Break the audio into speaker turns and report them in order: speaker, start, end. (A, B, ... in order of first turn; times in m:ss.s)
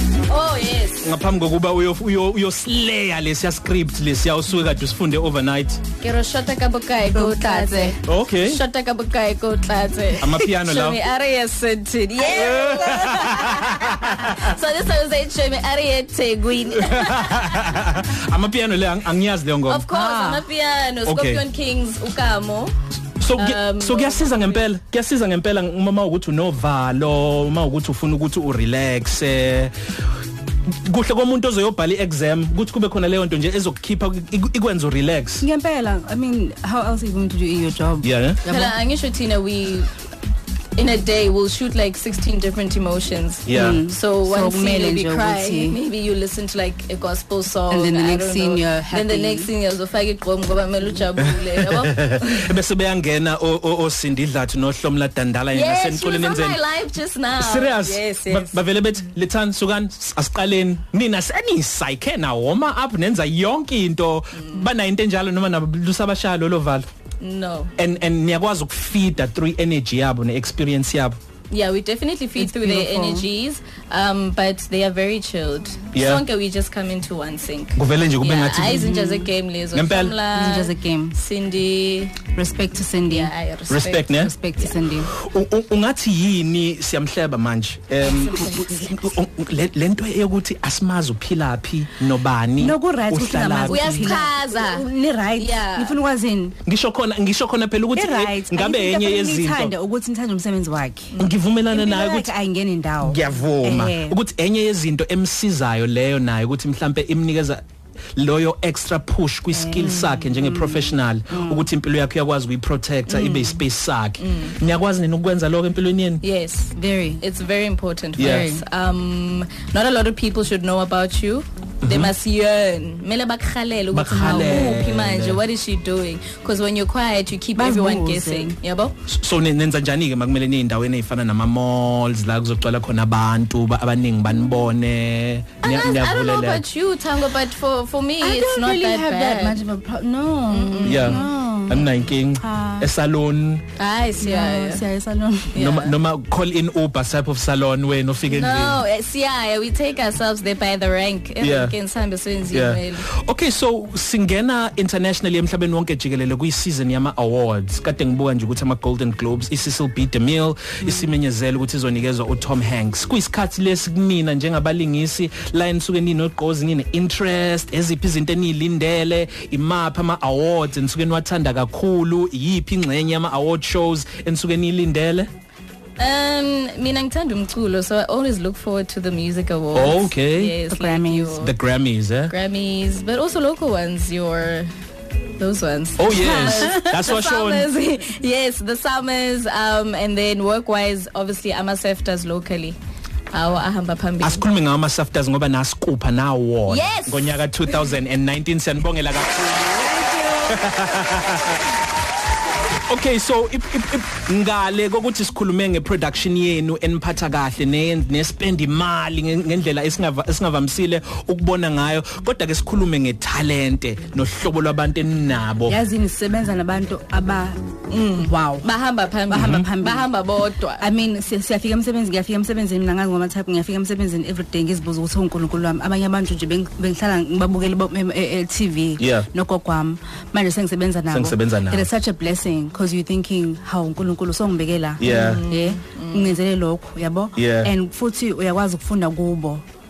0:00.3-0:01.1 A
0:01.0-0:05.8 B
0:06.0-0:17.8 A
0:07.1-0:08.0 C
0:08.0-0:08.6 B
0:10.2-0:11.0 B
0:12.2-0:14.5 B
0:16.8-0:19.9 B
0:19.6-0:22.8 A
0:19.9-0:20.4 C
0:21.0-0:21.4 B
0:23.2-0:29.7 B
0:23.3-0:24.7 A
0:30.8-0:35.4 B
0:35.4-0:38.8 C
0:38.0-0:38.4 B
0:38.5-0:39.9 A
0:40.8-0:52.6 A
0:43.4-0:43.8 B
0:43.5-0:45.8 C
0:47.7-0:49.5 C
0:51.2-0:56.6 B
0:55.5-0:58.6 A
0:57.4-1:06.9 B
1:04.3-1:04.7 A
1:07.2-1:07.7 A
1:07.8-1:11.2 B
1:11.5-1:22.2 A
1:12.4-1:13.3 C
1:15.9-1:16.2 B
1:17.8-1:18.9 B
1:18.6-1:19.3 C
1:19.7-1:20.2 B
1:20.3-1:21.2 C
1:22.3-1:23.3 C
1:23.1-1:24.7 A
1:23.7-1:24.3 B
1:24.1-1:25.1 C
1:25.1-1:34.2 B
1:28.3-1:28.7 C
1:32.6-1:36.6 C
1:33.7-1:34.9 A
1:35.4-1:36.0 A
1:36.7-1:39.7 B
1:37.9-1:41.1 C
1:41.2-1:42.3 B
1:41.7-1:44.2 C
1:43.0-1:47.6 B
1:48.2-1:56.2 B
1:49.5-1:51.7 C
1:53.1-1:53.6 A
1:54.2-1:54.6 A
1:56.2-2:08.9 A
1:56.8-1:57.2 C
1:58.2-1:58.5 B
1:58.2-1:58.6 C
2:01.8-2:02.1 B
2:03.9-2:05.4 B
2:04.1-2:04.8 C
2:07.6-2:08.6 C
2:09.1-2:16.6 B
2:15.6-2:19.6 A
2:18.2-2:22.9 C
2:20.5-2:21.3 A
2:20.8-2:23.6 B
2:23.8-2:24.8 A
2:24.2-2:25.6 C
2:25.5-2:26.0 A
2:25.6-2:28.8 B
2:28.3-2:33.1 A
2:31.4-2:31.7 B
2:32.5-2:55.3 B
2:56.0-3:01.6 A
2:59.7-3:00.6 B
3:00.7-3:01.4 C
3:01.4-3:02.3 B
3:02.3-3:04.7 A
3:05.4-3:12.8 A
3:06.0-3:07.7 B
3:06.2-3:06.8 C
3:13.3-3:14.4 A
3:14.2-3:21.8 B
3:16.7-3:17.9 A
3:22.8-3:35.8 B
3:35.7-3:37.6 C
3:37.9-3:40.8 A
3:38.1-3:38.7 C
3:39.3-3:40.1 C
3:39.3-3:39.7 B
3:40.8-3:59.6 C
3:49.0-3:49.3 B
3:51.1-3:51.9 B
3:55.0-3:55.4 B
3:55.0-3:56.4 A
3:57.4-3:57.7 B